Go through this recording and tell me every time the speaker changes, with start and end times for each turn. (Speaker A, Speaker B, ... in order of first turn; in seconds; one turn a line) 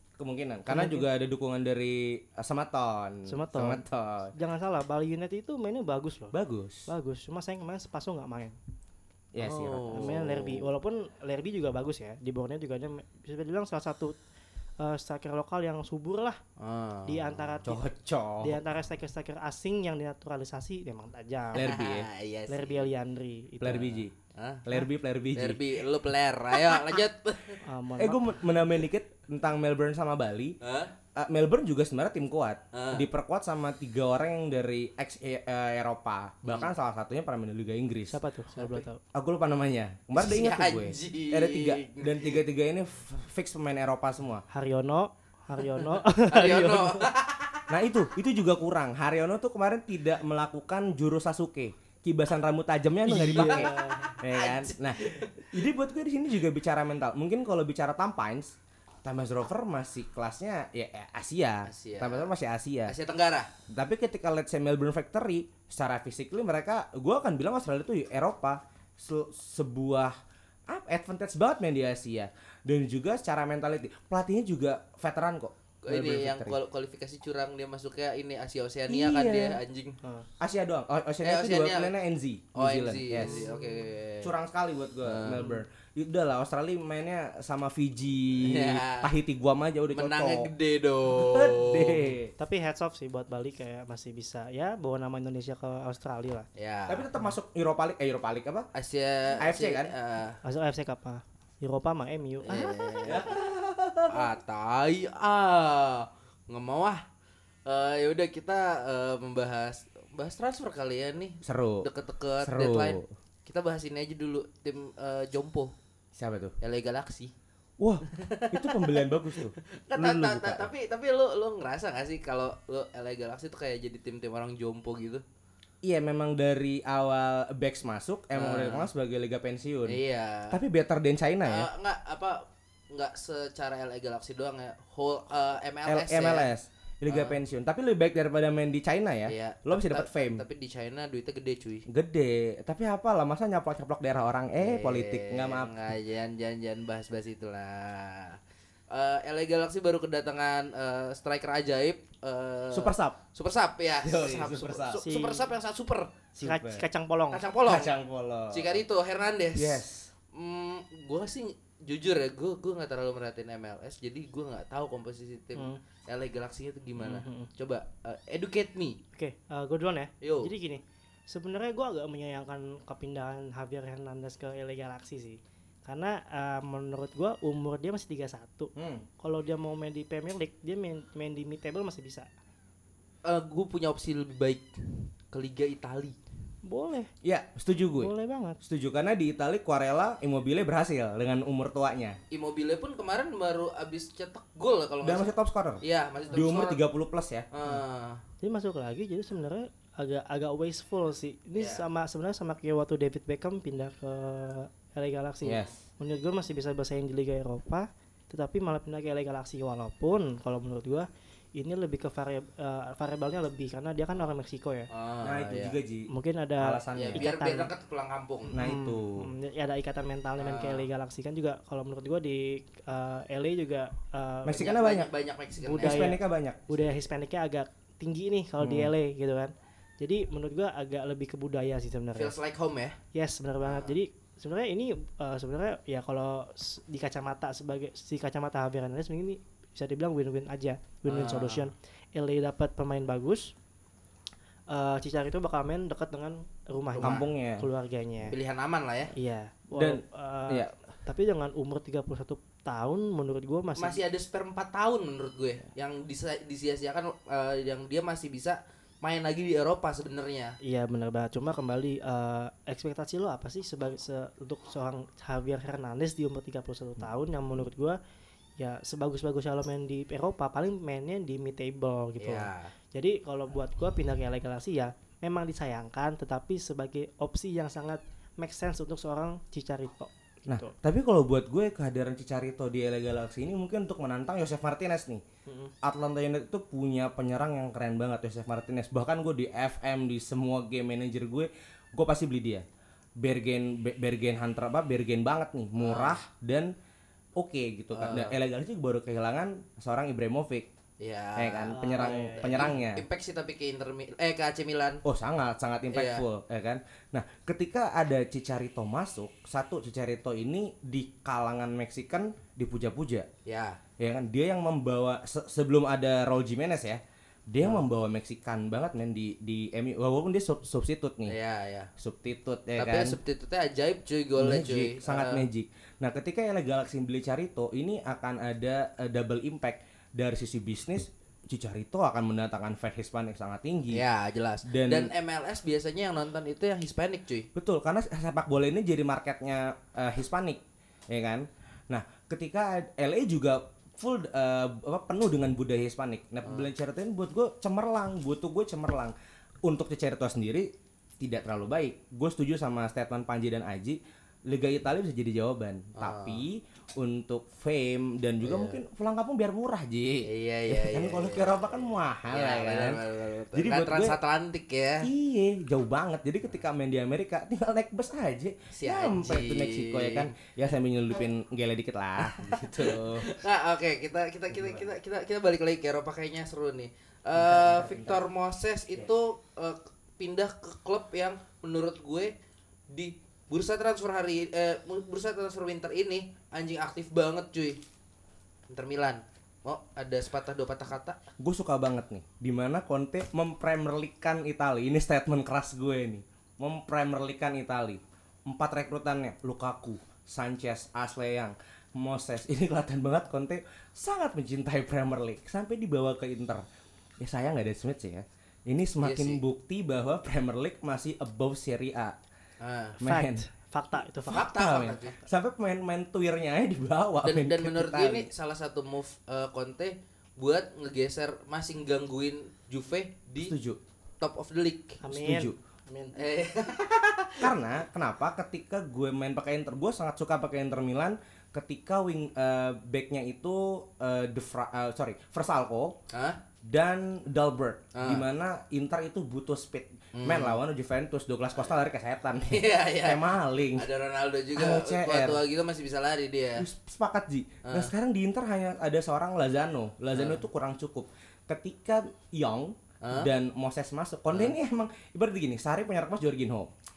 Speaker A: 0.2-4.3
Speaker B: 0.7-1.1
Speaker B: 3.3-6.3
Speaker A: 6.3-6.9
Speaker B: 6.9-8.6
Speaker A: 9.3-10.4
Speaker C: 9.4-10.5
Speaker B: 9.9-14.2
Speaker B: 14.8-16.4
Speaker C: 16.6-17.6
Speaker B: 17.1-17.8
Speaker A: 17.6-18.6
Speaker B: 18.4-21.7
Speaker A: 21.5-22.1
Speaker C: 21.5-22.9
Speaker B: 22.5-24.0
Speaker A: 23.6-24.1
Speaker C: 24.3-24.7
Speaker A: 24.6-25.7
Speaker C: 25.3-27.6
Speaker A: 26.7-27.0
Speaker B: 27.6-28.4
Speaker A: 28.0-30.6
Speaker C: 30.6-30.9
Speaker A: 31.1-38.2
Speaker C: 32.7-33.1
Speaker C: 36.4-36.7
Speaker B: 38.1-39.0
Speaker C: 38.5-38.9
Speaker A: 39.1-44.4
Speaker C: 40.1-42.4
Speaker B: 44.5-47.1
Speaker C: 45.8-47.7
Speaker A: 47.7-63.0
Speaker C: 53.1-55.5
Speaker B: 53.1-54.1
Speaker C: 61.6-62.3
Speaker C: 62.9-63.5
Speaker A: 63.7-70.1
Speaker A: 70.7-76.6
Speaker C: 75.8-80.0
Speaker A: 78.9-79.6
Speaker B: 80.0-80.3
Speaker A: 80.4-83.4
Speaker C: 81.2-81.9
Speaker C: 82.5-84.3
Speaker B: 83.2-83.8
Speaker A: 84.2-90.5
Speaker C: 85.0-85.5
Speaker C: 88.4-89.1
Speaker C: 89.9-92.2
Speaker A: 91.1-92.3
Speaker B: 92.4-96.5
Speaker C: 96.5-97.1
Speaker A: 96.9-98.7
Speaker C: 98.7-100.4
Speaker A: 99.4-99.9
Speaker B: 100.4-102.9
Speaker C: 102.4-103.3
Speaker A: 103.0-104.3
Speaker C: 104.1-107.0
Speaker C: 107.7-115.7
Speaker A: 111.4-111.9
Speaker A: 112.4-113.1
Speaker A: 116.2-116.5
Speaker C: 116.6-117.3
Speaker A: 117.8-120.7
Speaker C: 118.1-125.2
Speaker A: 125.8-131.7
Speaker C: 128.3-128.9
Speaker C: 129.9-130.6
Speaker C: 131.4-136.5
Speaker A: 135.9-140.4
Speaker C: 137.1-137.4
Speaker C: 139.2-141.8
Speaker A: 141.9-145.7
Speaker C: 144.6-148.4
Speaker C: 148.9-156.1
Speaker A: 152.7-153.2
Speaker A: 154.0-155.0
Speaker B: 155.0-155.4
Speaker A: 156.4-156.8
Speaker B: 156.4-157.4
Speaker C: 157.3-157.9
Speaker A: 157.6-158.8
Speaker C: 158.5-169.0
Speaker A: 159.5-160.1
Speaker B: 167.0-167.5
Speaker B: 169.1-182.3
Speaker C: 170.2-170.5
Speaker A: 178.8-179.0
Speaker C: 183.2-186.2
Speaker B: 186.6-187.1
Speaker A: 187.2-192.2
Speaker B: 188.0-188.6
Speaker C: 192.3-196.8
Speaker A: 195.0-195.8
Speaker A: 196.3-197.5
Speaker C: 197.5-198.2
Speaker B: 198.4-214.9
Speaker C: 201.6-201.8
Speaker A: 205.4-205.7
Speaker C: 214.9-215.8
Speaker A: 215.2-217.3
Speaker B: 216.1-217.7
Speaker C: 216.9-218.6
Speaker A: 218.5-219.3
Speaker B: 218.5-224.7
Speaker C: 220.4-220.9
Speaker A: 224.4-225.1
Speaker C: 224.5-226.1
Speaker B: 225.6-232.3
Speaker A: 225.8-226.7
Speaker A: 228.6-228.9
Speaker C: 232.1-233.0
Speaker B: 233.1-243.5
Speaker C: 233.6-233.9
Speaker C: 241.1-241.7
Speaker B: 244.7-248.3
Speaker C: 246.9-247.2
Speaker A: 247.0-247.7
Speaker C: 248.3-249.1
Speaker B: 249.1-254.0
Speaker A: 249.7-250.7
Speaker C: 253.8-260.6
Speaker B: 260.6-268.0
Speaker B: 268.6-280.7
Speaker C: 272.2-272.7
Speaker A: 280.5-285.2
Speaker B: 285.4-285.7
Speaker A: 285.8-292.6
Speaker A: 293.2-296.7
Speaker C: 295.8-296.2
Speaker A: 297.4-300.7
Speaker C: 297.9-298.4
Speaker C: 301.0-305.0
Speaker A: 301.4-303.0
Speaker B: 301.7-302.7
Speaker A: 305.0-313.3
Speaker C: 305.9-306.2
Speaker C: 313.4-313.8
Speaker A: 314.0-321.4
Speaker C: 321.3-321.9
Speaker A: 322.0-323.2
Speaker C: 322.8-325.5
Speaker A: 324.4-334.0
Speaker C: 333.9-337.5
Speaker A: 334.6-335.1
Speaker A: 337.5-349.1
Speaker C: 346.4-346.7
Speaker A: 349.6-364.2
Speaker C: 355.9-356.4
Speaker C: 358.4-358.8
Speaker C: 360.2-365.1
Speaker A: 365.0-373.3
Speaker C: 368.7-370.3
Speaker C: 372.2-382.3
Speaker A: 374.6-374.8
Speaker A: 377.3-378.2
Speaker C: 382.9-387.8
Speaker C: 388.7-391.2
Speaker A: 391.4-406.6
Speaker A: 407.2-412.1
Speaker C: 409.0-409.4
Speaker C: 412.6-413.0
Speaker A: 413.0-413.4
Speaker B: 413.0-414.5
Speaker C: 414.3-415.2
Speaker A: 414.3-418.3
Speaker C: 417.2-423.5
Speaker A: 423.4-423.8
Speaker C: 424.2-425.0
Speaker B: 425.0-426.2
Speaker A: 425.1-425.6
Speaker C: 426.1-427.5
Speaker A: 427.4-436.0
Speaker C: 436.1-436.4
Speaker A: 436.6-443.9
Speaker C: 437.9-438.2
Speaker C: 440.1-440.6
Speaker C: 442.5-446.7
Speaker A: 444.5-445.4
Speaker A: 446.6-456.7
Speaker C: 447.6-447.9
Speaker C: 450.1-450.4
Speaker C: 453.0-453.3